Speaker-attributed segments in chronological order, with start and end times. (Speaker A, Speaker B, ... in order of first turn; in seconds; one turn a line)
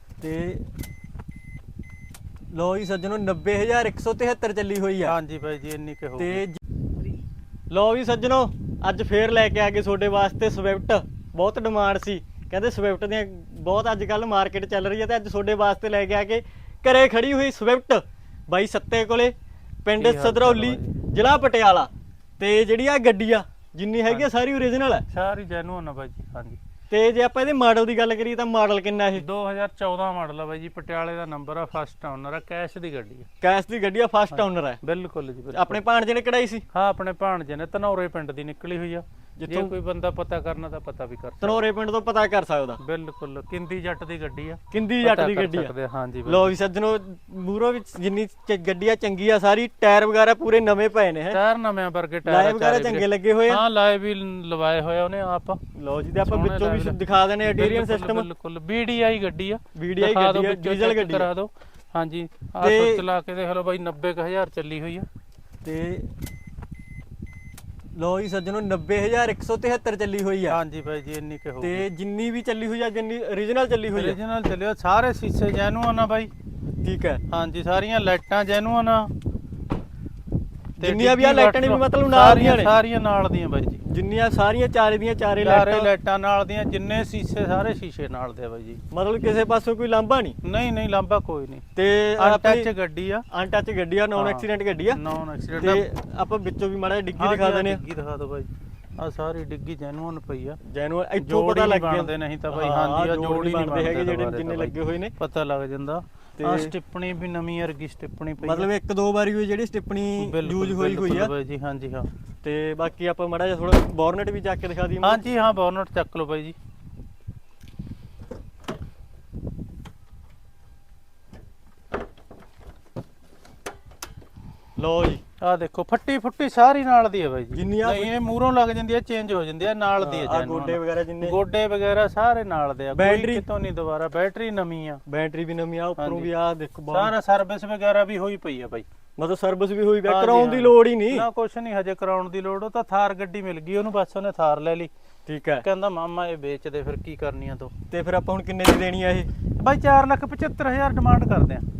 Speaker A: 0.2-0.7
Speaker A: 2.5-5.1
Speaker B: 5.0-6.4
Speaker A: 6.2-6.6
Speaker A: 7.7-19.3
Speaker A: 19.9-25.1
Speaker B: 20.0-21.0
Speaker B: 25.1-26.6
Speaker A: 26.9-29.2
Speaker B: 29.2-33.3
Speaker A: 33.4-34.8
Speaker B: 34.3-35.8
Speaker A: 35.5-36.6
Speaker B: 36.7-41.6
Speaker A: 39.4-39.7
Speaker A: 41.4-42.8
Speaker B: 42.8-46.5
Speaker A: 44.7-45.7
Speaker A: 46.3-51.4
Speaker B: 51.3-55.6
Speaker A: 52.3-53.6
Speaker A: 55.7-58.3
Speaker B: 56.2-65.1
Speaker A: 59.7-61.3
Speaker A: 62.6-63.0
Speaker A: 65.6-66.1
Speaker A: 68.0-70.6
Speaker B: 70.5-71.8
Speaker A: 71.6-74.2
Speaker B: 73.9-76.3
Speaker A: 76.8-77.2
Speaker B: 77.3-79.1
Speaker A: 80.8-82.8
Speaker B: 80.8-83.8
Speaker A: 83.8-85.9
Speaker B: 85.4-88.8
Speaker A: 88.9-90.4
Speaker B: 90.4-91.6
Speaker A: 91.8-92.7
Speaker B: 92.2-93.2
Speaker A: 93.3-95.0
Speaker B: 94.2-95.8
Speaker A: 95.5-97.8
Speaker B: 97.2-100.6
Speaker A: 100.6-105.1
Speaker B: 101.2-108.7
Speaker A: 106.4-106.7
Speaker A: 108.4-111.3
Speaker B: 110.2-112.1
Speaker A: 112.4-115.2
Speaker B: 115.0-116.5
Speaker A: 124.8-125.2
Speaker B: 125.4-135.0
Speaker A: 127.5-128.1
Speaker A: 130.0-131.4
Speaker A: 132.9-133.4
Speaker A: 135.1-137.1
Speaker B: 136.0-136.3
Speaker B: 136.9-138.9
Speaker A: 139.2-141.3
Speaker B: 140.1-144.9
Speaker A: 145.3-145.7
Speaker B: 145.6-147.7
Speaker A: 147.9-149.3
Speaker B: 149.6-151.7